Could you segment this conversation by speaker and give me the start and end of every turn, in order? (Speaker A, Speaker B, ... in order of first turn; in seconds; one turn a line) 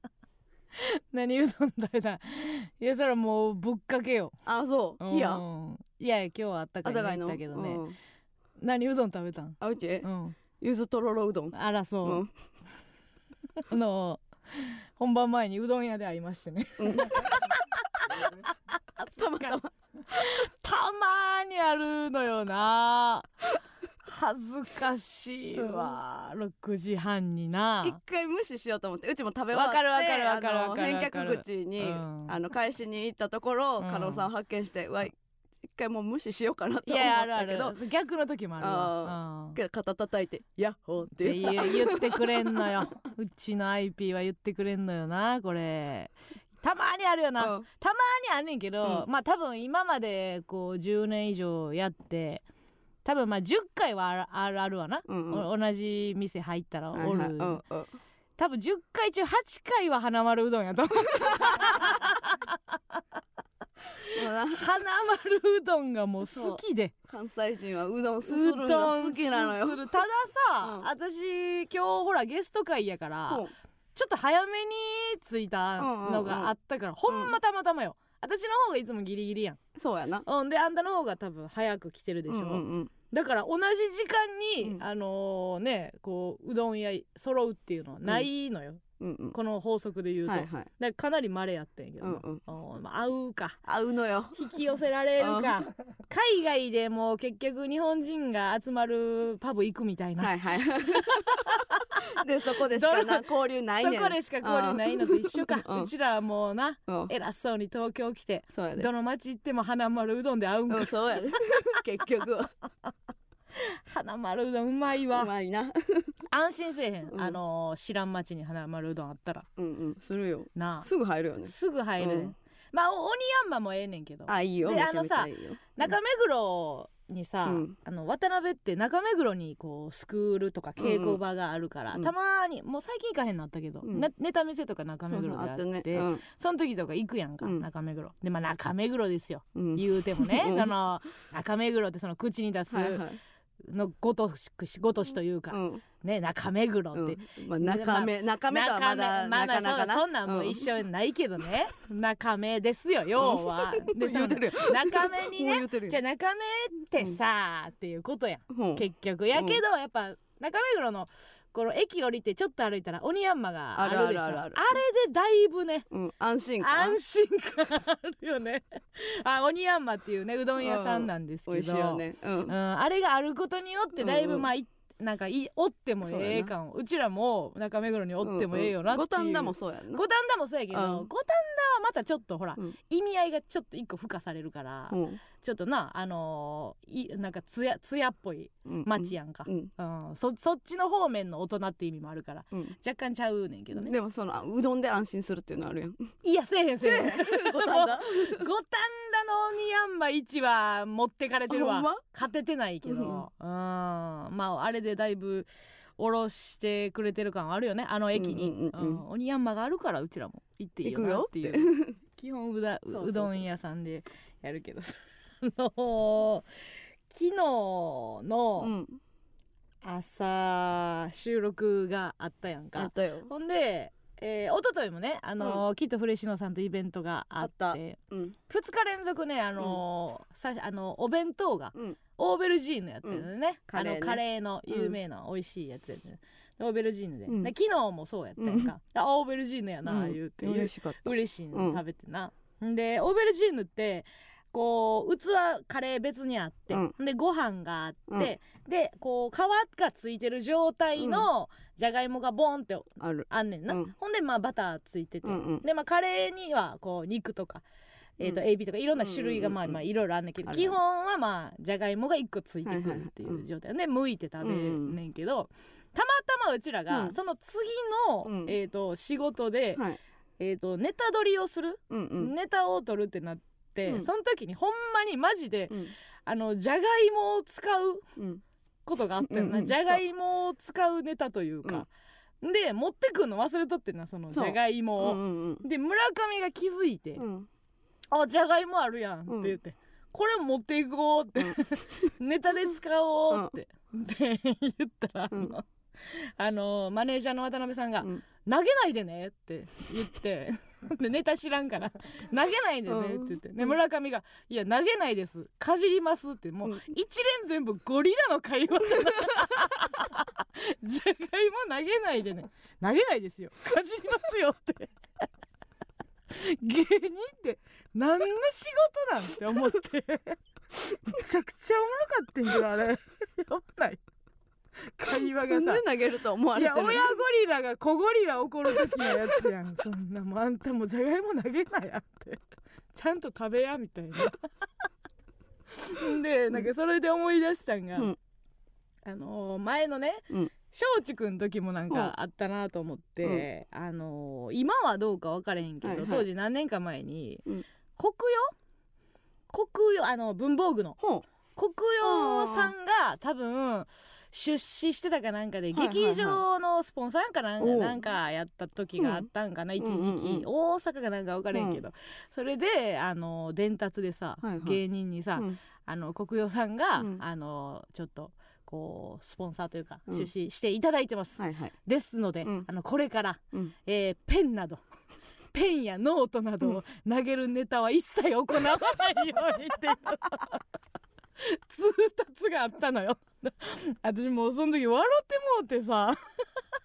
Speaker A: 0.8-4.3
Speaker B: 4.5-5.4
Speaker A: 5.0-7.8
Speaker B: 6.8-8.0
Speaker A: 8.6-10.4
Speaker B: 9.6-12.3
Speaker A: 11.5-12.2
Speaker A: 13.7-18.3
Speaker B: 16.8-17.3
Speaker B: 19.0-19.7
Speaker A: 20.1-23.4
Speaker A: 24.0-28.0
Speaker B: 25.6-26.0
Speaker B: 27.8-35.1
Speaker A: 29.5-32.4
Speaker A: 33.8-34.3
Speaker B: 35.7-37.8
Speaker A: 36.9-39.6
Speaker B: 38.6-42.7
Speaker A: 41.2-52.4
Speaker B: 47.4-47.6
Speaker A: 53.0-57.6
Speaker B: 55.1-55.5
Speaker B: 56.9-58.0
Speaker A: 58.4-62.8
Speaker B: 61.2-61.9
Speaker B: 64.1-64.7
Speaker A: 64.2-66.9
Speaker B: 66.3-69.9
Speaker A: 68.2-79.6
Speaker B: 70.6-70.9
Speaker B: 75.8-76.5
Speaker B: 77.1-77.3
Speaker B: 79.8-80.3
Speaker A: 80.3-88.8
Speaker B: 82.3-82.9
Speaker B: 89.0-89.4
Speaker A: 89.3-93.6
Speaker B: 90.3-90.7
Speaker B: 92.0-92.4
Speaker B: 93.7-94.5
Speaker A: 94.3-101.8
Speaker B: 95.2-95.5
Speaker B: 100.2-105.9
Speaker A: 102.7-111.4
Speaker B: 106.9-107.1
Speaker B: 108.5-108.9
Speaker B: 110.7-112.5
Speaker A: 113.5-115.3
Speaker B: 115.1-116.2
Speaker A: 116.3-119.5
Speaker B: 117.1-117.4
Speaker B: 119.6-122.3
Speaker A: 120.5-120.9
Speaker A: 121.4-143.0
Speaker B: 124.3-125.9
Speaker B: 127.5-127.8
Speaker B: 130.8-131.2
Speaker B: 133.8-134.1
Speaker B: 135.1-136.2
Speaker B: 139.6-140.7
Speaker B: 142.7-143.2
Speaker A: 143.6-165.9
Speaker B: 145.5-145.8
Speaker B: 146.9-150.7
Speaker B: 153.2-156.0
Speaker B: 158.5-158.8
Speaker B: 159.3-159.6
Speaker B: 163.8-164.8
Speaker B: 165.9-167.0
Speaker A: 166.6-193.9
Speaker B: 170.6-172.5
Speaker B: 174.0-174.5
Speaker B: 176.0-176.5
Speaker B: 178.2-180.0
Speaker B: 180.7-181.1
Speaker B: 184.9-185.2
Speaker B: 188.7-189.7
Speaker B: 193.7-196.2
Speaker A: 196.2-216.5
Speaker B: 196.8-198.4
Speaker B: 201.5-202.0
Speaker B: 202.8-203.2
Speaker B: 208.1-209.0
Speaker B: 210.8-211.9
Speaker B: 212.9-213.5
Speaker A: 217.1-218.7
Speaker B: 218.6-219.0
Speaker A: 219.8-257.6
Speaker B: 222.8-223.3
Speaker B: 227.4-228.4
Speaker B: 233.0-235.0
Speaker B: 238.4-238.7
Speaker B: 239.9-241.8
Speaker B: 251.0-251.3
Speaker B: 253.0-253.9
Speaker B: 255.2-255.6
Speaker A: 258.2-269.8
Speaker B: 259.0-259.8
Speaker B: 260.5-260.8
Speaker B: 262.6-263.4
Speaker B: 264.4-265.0
Speaker B: 266.9-267.2
Speaker B: 268.2-268.6
Speaker A: 270.4-278.0
Speaker B: 271.9-272.3
Speaker B: 278.2-278.4
Speaker A: 278.9-281.9
Speaker B: 279.2-280.0
Speaker A: 282.4-287.2
Speaker B: 284.3-285.6
Speaker B: 287.2-287.5
Speaker A: 288.1-314.9
Speaker B: 289.3-289.5
Speaker B: 291.4-292.1
Speaker B: 302.9-303.8
Speaker A: 316.3-320.4
Speaker A: 321.1-324.0
Speaker A: 324.9-325.8
Speaker B: 325.5-327.1
Speaker A: 326.5-332.4
Speaker A: 332.9-334.4
Speaker A: 335.8-338.1
Speaker A: 339.1-347.4
Speaker B: 345.8-346.3
Speaker A: 348.0-348.5
Speaker A: 349.5-351.0
Speaker A: 351.6-374.8
Speaker B: 352.0-352.7
Speaker B: 355.7-356.4
Speaker B: 357.6-358.0
Speaker B: 359.0-359.2
Speaker B: 359.8-360.4
Speaker B: 361.5-361.8
Speaker B: 364.4-364.8
Speaker B: 371.4-371.7
Speaker A: 375.5-380.6
Speaker A: 381.4-386.4